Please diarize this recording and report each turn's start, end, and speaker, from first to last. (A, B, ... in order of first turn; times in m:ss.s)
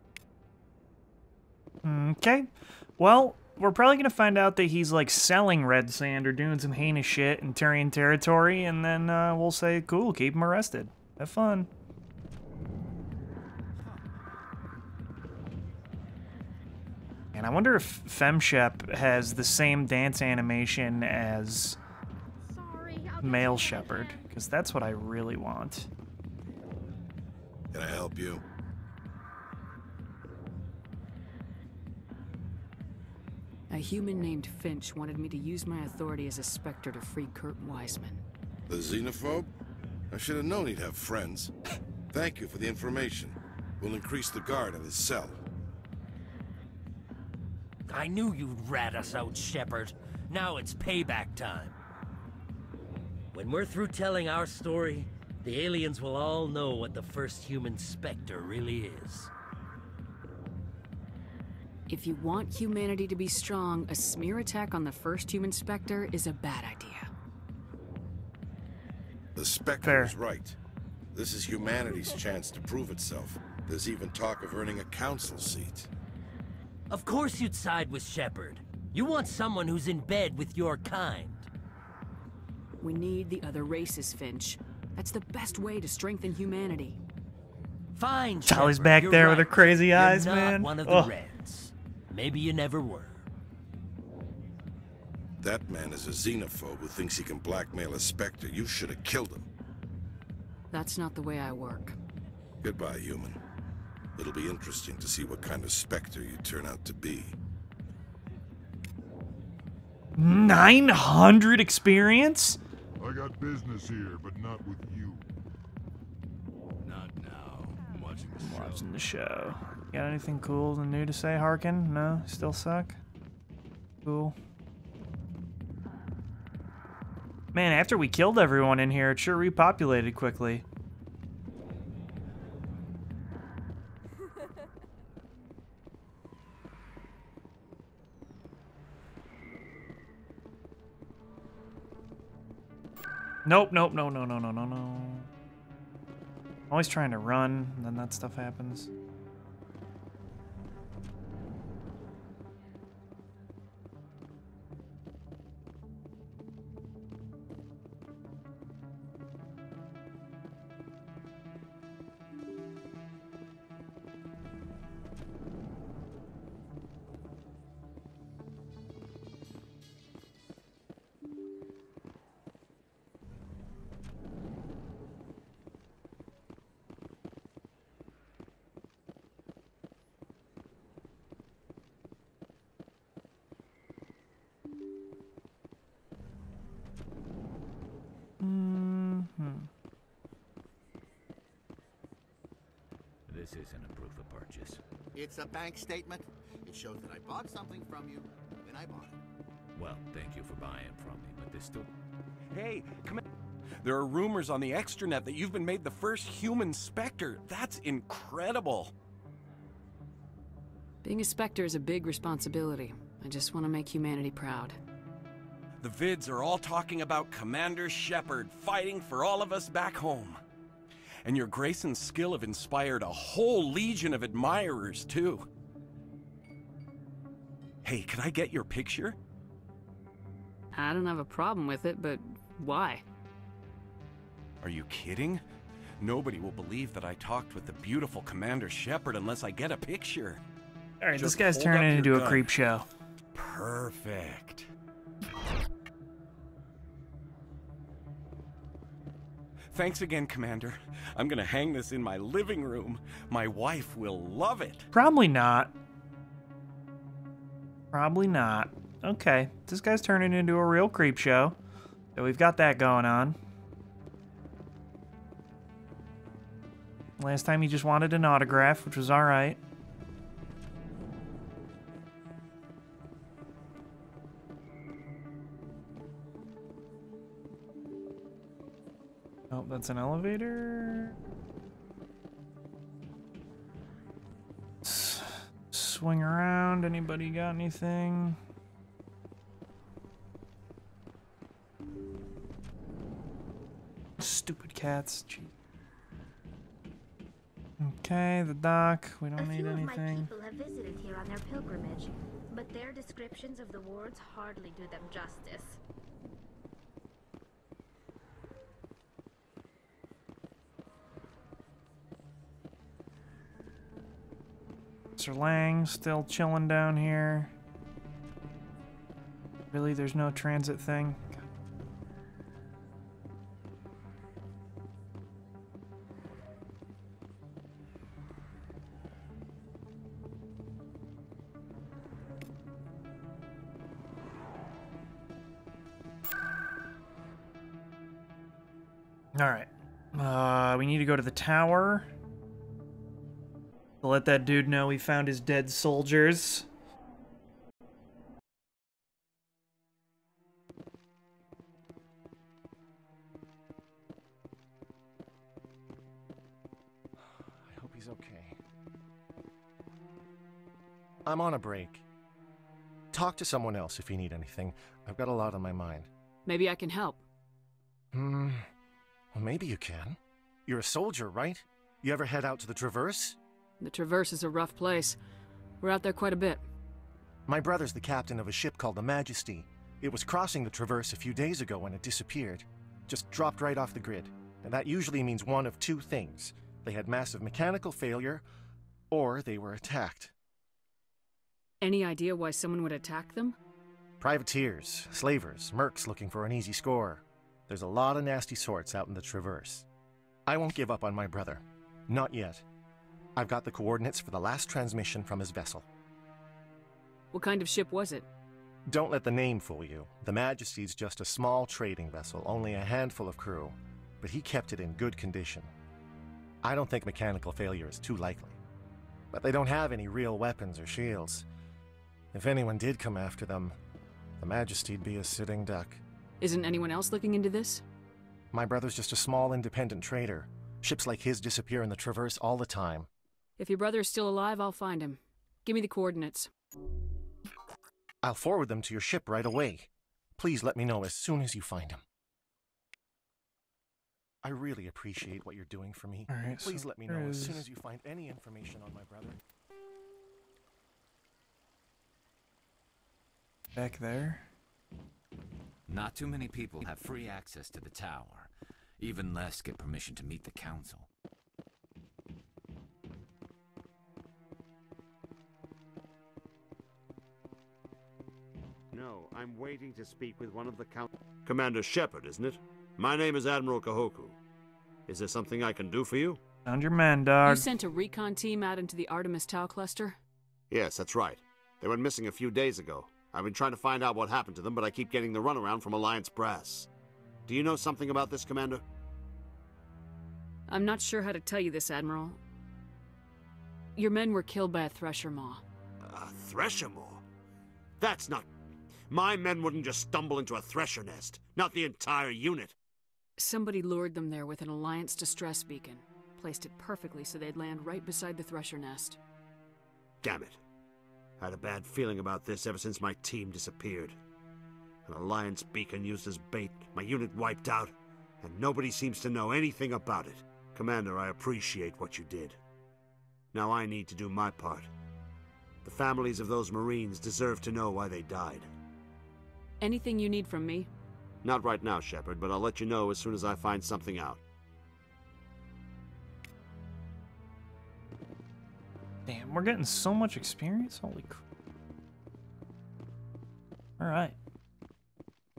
0:01.8-0:11.7 A
0:17.3-0:21.8 A
0:23.2-0:25.9 A
0:27.7-0:28.4 B
0:33.7-0:38.2 C
0:38.7-0:39.5 B
0:40.1-0:41.5 B
0:42.1-0:45.4 B
0:47.9-0:51.7 D
0:53.3-0:59.3 D
1:01.9-1:07.1 C
1:09.4-1:10.6 B
1:09.8-1:10.2 A
1:11.1-1:15.9 B
1:16.9-1:21.5 D
1:22.8-1:27.0 C
1:27.9-1:33.2 D
1:28.4-1:31.1 A
1:35.4-1:39.5 B
1:40.7-1:42.0 C
1:42.6-1:43.4 B
1:44.2-1:47.3 B
1:50.2-1:52.6 A
1:53.0-1:55.2 E
1:56.9-1:58.8 F
1:58.4-2:03.0 A
2:04.0-2:04.4 A
2:07.5-2:10.6 A
2:23.4-2:25.3 A
2:26.7-2:28.9 A
3:08.4-3:09.7 A
3:13.3-3:14.8 G
3:15.1-3:19.2 H
3:19.7-3:21.9 G
3:22.5-3:23.2 F
3:23.8-3:28.9 F
3:31.0-3:34.8 C
3:35.8-3:40.4 F
3:41.2-3:45.5 F
3:47.8-3:49.2 F
3:50.7-3:53.0 C
3:54.6-3:55.4 F
3:56.0-4:00.4 F
4:01.0-4:02.9 A
4:01.2-4:02.5 F
4:03.3-4:04.6 F
4:09.7-4:14.9 F
4:14.9-4:15.7 A
4:17.9-4:21.6 A
4:22.1-4:23.4 A
4:27.2-4:29.6 A
4:39.5-4:41.1 A
4:44.8-4:48.4 A
4:54.2-4:55.5 A
4:57.8-5:00.3 A
4:59.4-5:05.8 I
5:15.2-5:17.5 A
5:19.7-5:21.4 A
5:39.3-5:42.1 A
5:44.0-5:46.7 A
5:57.2-5:58.6 J
6:01.2-6:02.0 J
6:03.1-6:06.1 J
6:06.4-6:07.2 C
6:08.1-6:08.6 J
6:09.3-6:13.4 J
6:13.8-6:15.2 C
6:15.8-6:16.6 C
6:17.5-6:28.4 J
6:29.1-6:30.3 J
6:31.8-6:33.6 C
6:34.2-6:39.8 J
6:40.5-6:42.6 J
6:43.4-6:45.8 J
6:47.3-6:48.3 C
6:48.9-6:55.7 J
6:56.6-6:58.6 J
6:59.3-7:01.4 J
7:02.3-7:03.7 J
7:04.4-7:06.0 J
7:06.4-7:07.8 C
7:08.5-7:13.1 J
7:13.6-7:16.5 C
7:18.2-7:22.0 J
7:24.4-7:29.4 J
7:26.3-7:27.6 A
7:33.7-7:34.5 A
7:35.9-7:41.1 G
7:48.9-7:54.4 K
7:55.1-7:56.4 K
7:56.6-7:57.6 A
7:57.4-8:00.2 C
8:00.7-8:06.9 K
8:07.5-8:08.8 K
8:10.7-8:12.4 C
8:14.0-8:15.6 C
8:16.0-8:17.2 K
8:18.0-8:18.5 K
8:19.1-8:22.7 K
8:23.4-8:29.2 C
8:30.2-8:30.6 K
8:31.4-8:34.2 K
8:35.1-8:42.6 K
8:43.5-8:44.9 K
8:45.8-8:48.7 K
8:49.8-8:50.9 C
8:51.4-8:54.4 K
8:59.2-9:01.4 A
9:04.0-9:04.4 A